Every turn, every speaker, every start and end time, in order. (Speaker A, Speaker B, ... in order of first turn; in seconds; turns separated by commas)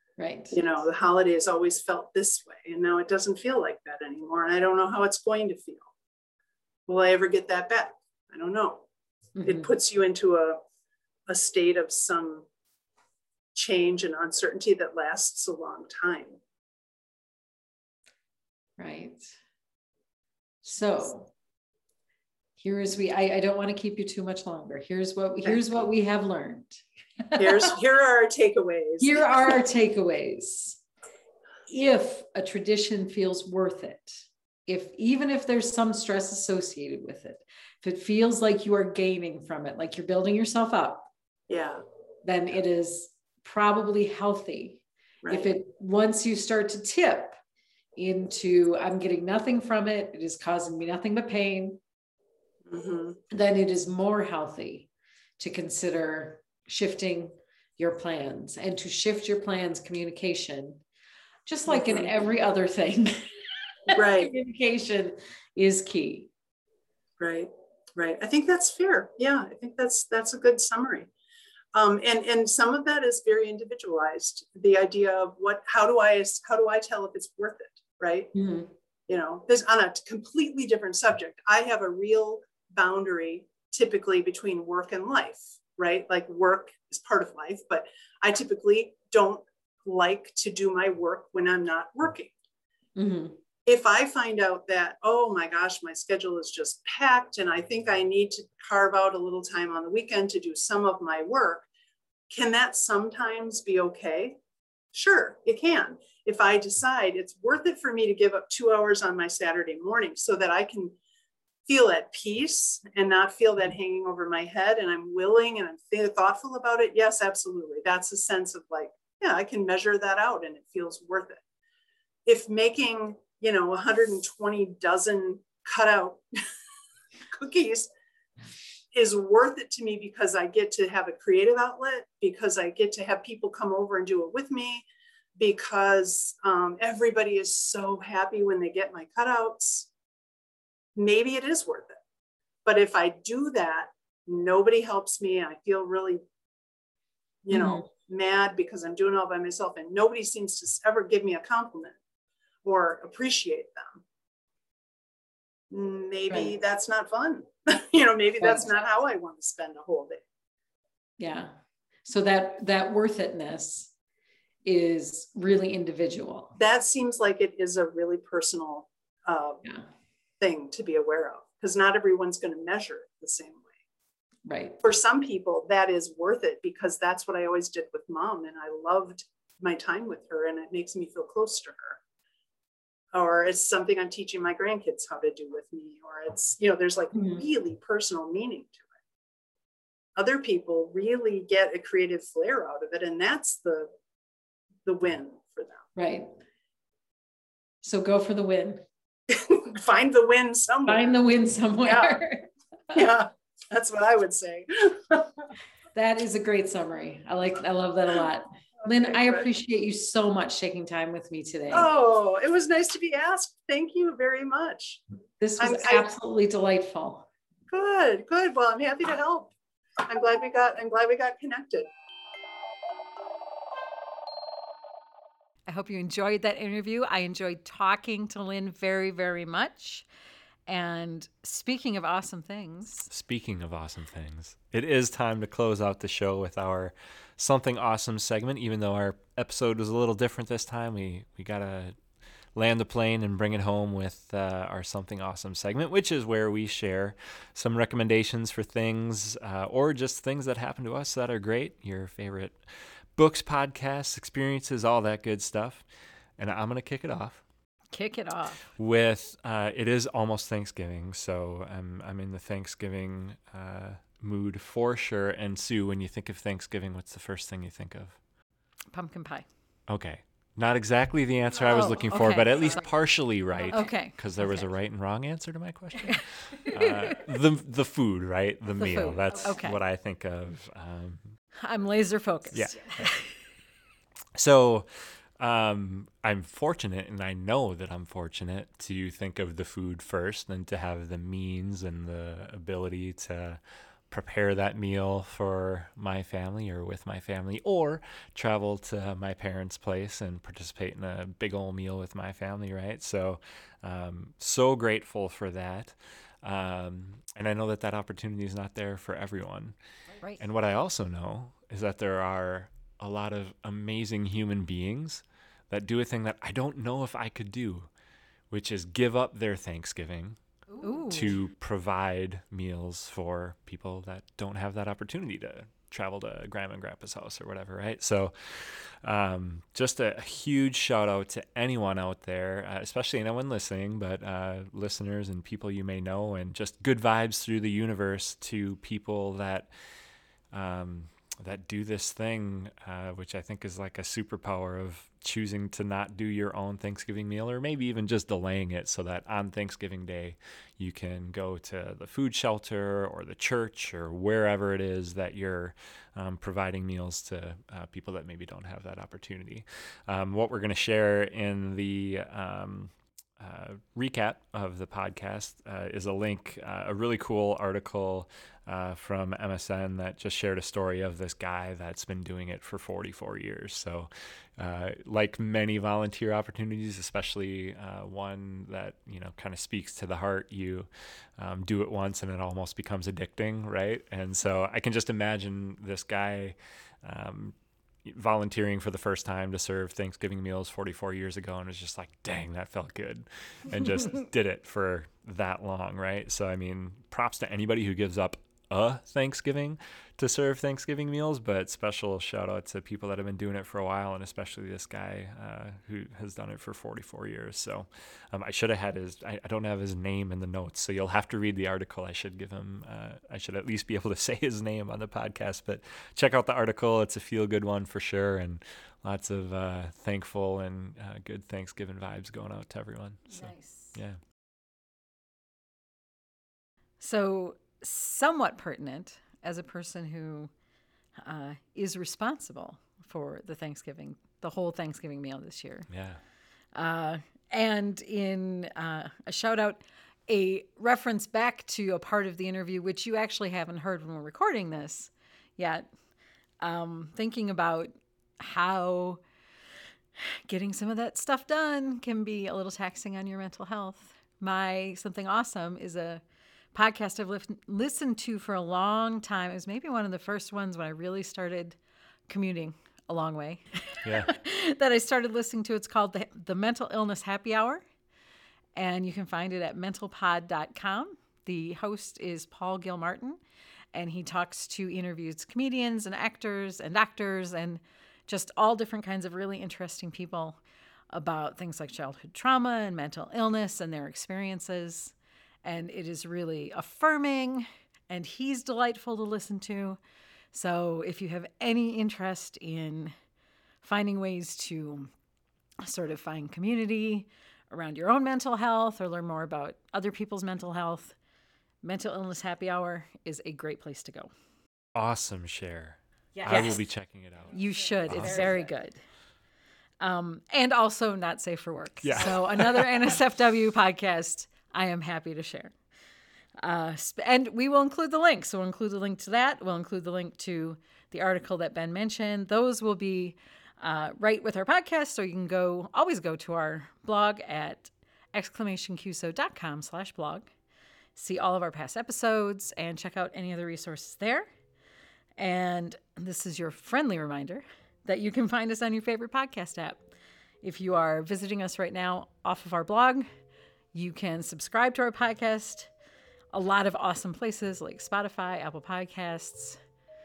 Speaker A: 0.2-0.5, Speaker B: 0.5-5.9, Speaker B: 6.9-8.8, Speaker A: 9.3-9.7, Speaker B: 9.4-10.6, Speaker B: 11.3-12.4, Speaker B: 13.5-16.4, Speaker A: 18.8-19.3, Speaker A: 20.6-21.3, Speaker A: 22.6-27.7, Speaker B: 27.4-29.5, Speaker A: 29.0-30.8, Speaker A: 31.7-41.1, Speaker B: 41.5-41.8, Speaker A: 42.2-47.4, Speaker A: 48.0-51.8, Speaker B: 52.7-53.2, Speaker A: 53.3-54.9, Speaker A: 55.4-60.8, Speaker A: 61.5-63.3, Speaker B: 61.7-62.1, Speaker A: 63.9-66.3, Speaker B: 63.9-64.3, Speaker B: 67.2-71.1, Speaker B: 71.7-78.3, Speaker A: 78.3-78.7, Speaker B: 79.1-92.3, Speaker A: 93.0-93.4, Speaker B: 93.7-101.7, Speaker B: 102.3-104.4, Speaker B: 104.9-111.0, Speaker B: 111.7-121.4, Speaker B: 122.2-126.2, Speaker B: 127.3-127.9, Speaker B: 128.9-134.8, Speaker B: 135.4-139.9, Speaker B: 140.9-142.0, Speaker B: 142.7-146.2, Speaker B: 147.4-151.9, Speaker A: 147.5-147.8, Speaker B: 152.6-154.0, Speaker B: 155.7-160.2, Speaker A: 161.2-161.5, Speaker A: 162.0-163.9, Speaker A: 164.6-166.5, Speaker B: 166.6-169.7, Speaker B: 170.4-173.7, Speaker A: 174.4-174.8, Speaker B: 174.8-182.0, Speaker B: 183.1-188.8, Speaker A: 187.1-187.4, Speaker B: 190.2-193.9, Speaker B: 194.8-195.9, Speaker A: 195.9-196.3, Speaker A: 197.8-198.8, Speaker B: 199.3-201.2, Speaker A: 200.8-203.0, Speaker B: 201.8-202.2, Speaker B: 202.9-205.5, Speaker A: 205.9-211.9, Speaker B: 208.8-209.5, Speaker B: 211.7-215.0, Speaker A: 215.4-217.3, Speaker B: 215.6-216.1, Speaker B: 217.7-221.9, Speaker A: 225.7-230.1, Speaker A: 230.7-233.1, Speaker C: 233.1-242.0, Speaker C: 242.5-255.8, Speaker C: 256.4-257.4, Speaker A: 257.9-258.7, Speaker C: 258.8-268.2, Speaker A: 268.9-269.4, Speaker C: 269.9-281.3, Speaker A: 271.7-272.7, Speaker A: 273.7-274.7, Speaker A: 276.1-277.2, Speaker A: 278.8-279.8, Speaker A: 281.6-283.3, Speaker C: 282.5-283.1, Speaker C: 284.3-309.7, Speaker C: 310.4-317.9, Speaker C: 318.5-320.4, Speaker A: 320.8-321.4, Speaker C: 320.9-339.7, Speaker C: 340.5-424.2, Speaker A: 423.3-423.9, Speaker A: 427.0-430.5, Speaker A: 431.2-435.9, Speaker C: 435.9-436.2, Speaker A: 436.7-445.9, Speaker A: 446.6-449.2, Speaker A: 450.5-456.2, Speaker A: 456.7-461.8, Speaker A: 462.3-467.8, Speaker C: 464.0-464.3, Speaker A: 468.7-473.4, Speaker A: 473.9-480.6, Speaker A: 481.1-490.0, Speaker A: 490.5-493.1, Speaker A: 493.8-495.1, Speaker A: 495.8-501.1, Speaker A: 501.8-504.3, Speaker C: 504.9-508.5, Speaker A: 506.4-506.8, Speaker A: 507.5-508.9, Speaker A: 510.0-515.7, Speaker C: 512.0-512.9, Speaker A: 516.6-530.5, Speaker A: 531.1-534.5, Speaker A: 535.4-540.1, Speaker A: 540.6-543.3, Speaker A: 543.9-545.9, Speaker A: 546.5-549.8